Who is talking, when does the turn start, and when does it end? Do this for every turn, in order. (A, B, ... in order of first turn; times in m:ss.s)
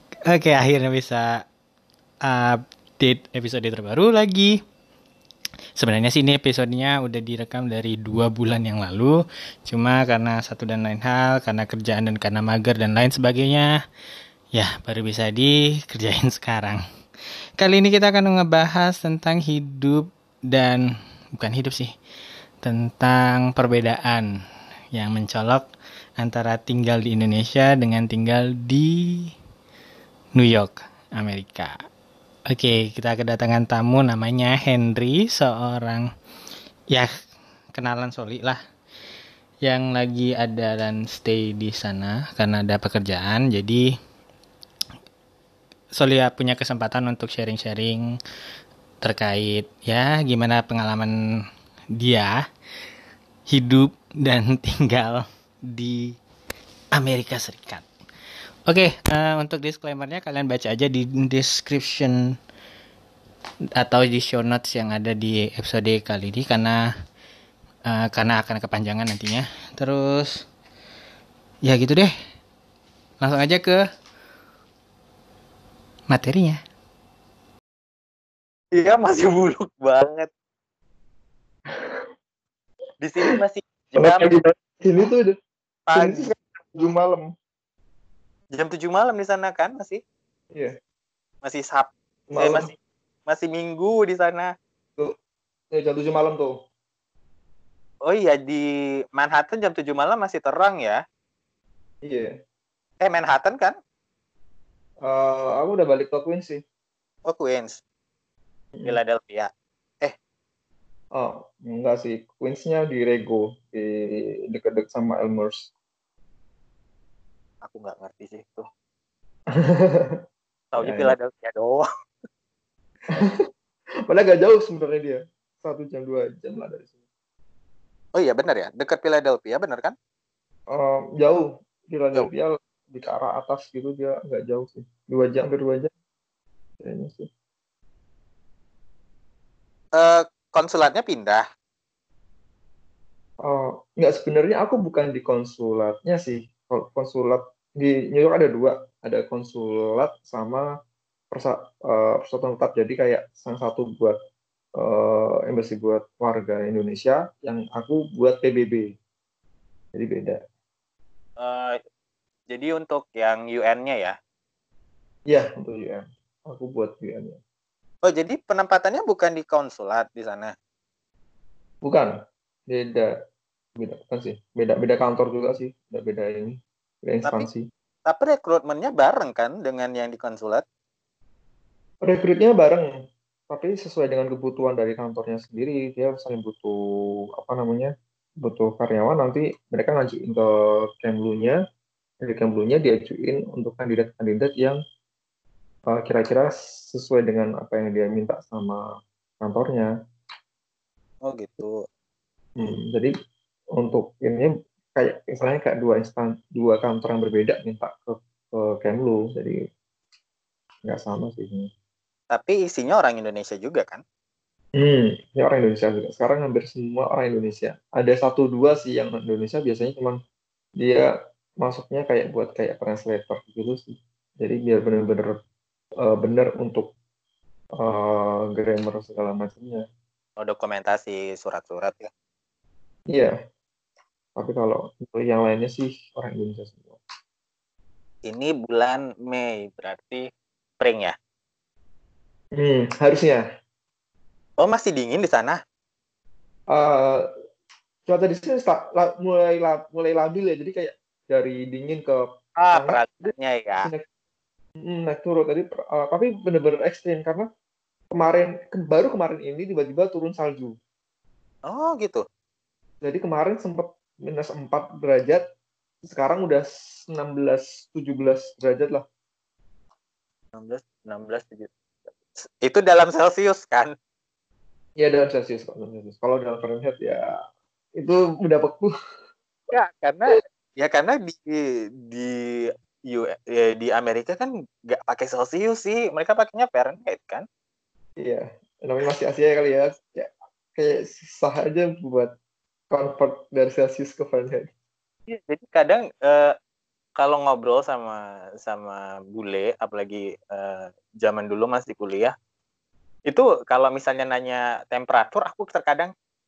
0:00.3-0:01.4 A
0:02.2-0:04.6 A
0:05.8-0:13.8 A
0:14.5-0:16.8 A
0:17.6-0:20.8 A
0:21.4-0:21.9 A
0:22.6-0:24.2 A
0:25.0-0:25.6 A
0:26.2-0:29.3 A
0:30.4-0:31.8 A
0:32.5-0:36.1 A
0:37.8-0:38.6 A
0:39.6-0:43.9 A
0:46.0-0:48.0 A
0:49.0-0:51.1 A
0:52.0-0:52.4 A
0:53.5-0:56.2 A
0:57.0-0:57.8 A
0:58.7-1:02.2 A
1:03.8-1:06.8 A
1:07.9-1:10.4 A
1:11.6-1:12.1 A
1:13.2-1:13.8 A
1:16.1-1:16.6 A
1:18.8-1:20.3 B
1:21.7-1:22.0 C
1:23.0-1:24.3 B
1:24.0-1:25.4 C
1:25.9-1:26.3 B
1:25.9-1:27.3 C
1:28.5-1:30.0 B
1:31.4-1:32.7 B
1:32.3-1:32.7 C
1:33.3-1:34.5 B
1:35.7-1:36.5 C
1:38.1-1:38.6 B
1:39.2-1:41.0 B
1:42.0-1:42.3 C
1:43.0-1:43.8 B
1:45.0-1:46.6 C
1:47.3-1:47.8 B
1:48.8-1:49.5 B
1:51.2-1:55.7 C
1:57.6-1:58.7 B
1:59.5-2:00.2 C
2:00.7-2:01.9 B
2:00.8-2:01.2 C
2:03.1-2:03.4 C
2:04.1-2:06.9 C
2:08.2-2:09.9 B
2:10.7-2:15.9 C
2:16.8-2:17.3 C
2:20.0-2:21.4 B
2:23.4-2:30.6 C
2:31.3-2:34.2 C
2:34.8-2:39.0 C
2:40.0-2:40.4 C
2:41.4-2:41.8 B
2:42.5-2:44.2 B
2:45.3-2:47.4 C
2:48.0-2:50.5 B
2:51.8-2:52.1 C
2:52.7-2:53.1 C
2:53.8-2:57.7 C
2:58.1-3:00.6 B
3:02.0-3:02.9 C
3:03.5-3:06.8 C
3:07.4-3:11.6 C
3:12.2-3:14.8 C
3:15.9-3:18.8 C
3:19.4-3:19.9 C
3:21.2-3:21.8 B
3:22.6-3:23.1 C
3:23.8-3:29.6 C
3:30.8-3:31.7 C
3:32.3-3:34.0 B
3:34.8-3:40.2 C
3:40.8-3:41.1 C
3:41.6-3:45.3 C
3:46.0-3:46.9 C
3:47.8-3:49.8 C
3:50.4-3:52.1 B
3:54.4-3:57.0 C
3:58.3-4:00.3 B
4:00.8-4:01.2 B
4:02.6-4:03.4 C
4:04.6-4:05.6 B
4:06.7-4:07.3 C
4:08.1-4:14.1 C
4:12.6-4:13.9 B
4:14.8-4:17.5 C
4:18.1-4:20.8 C
4:21.7-4:22.2 B
4:23.0-4:25.4 C
4:26.0-4:29.0 C
4:30.5-4:31.7 B
4:32.3-4:34.0 B
4:35.0-4:37.3 C
4:38.0-4:38.9 C
4:39.7-4:47.4 B
4:48.2-4:52.3 C
4:52.9-4:54.7 C
4:55.3-4:56.5 B
4:57.2-5:02.3 B
5:03.3-5:06.1 B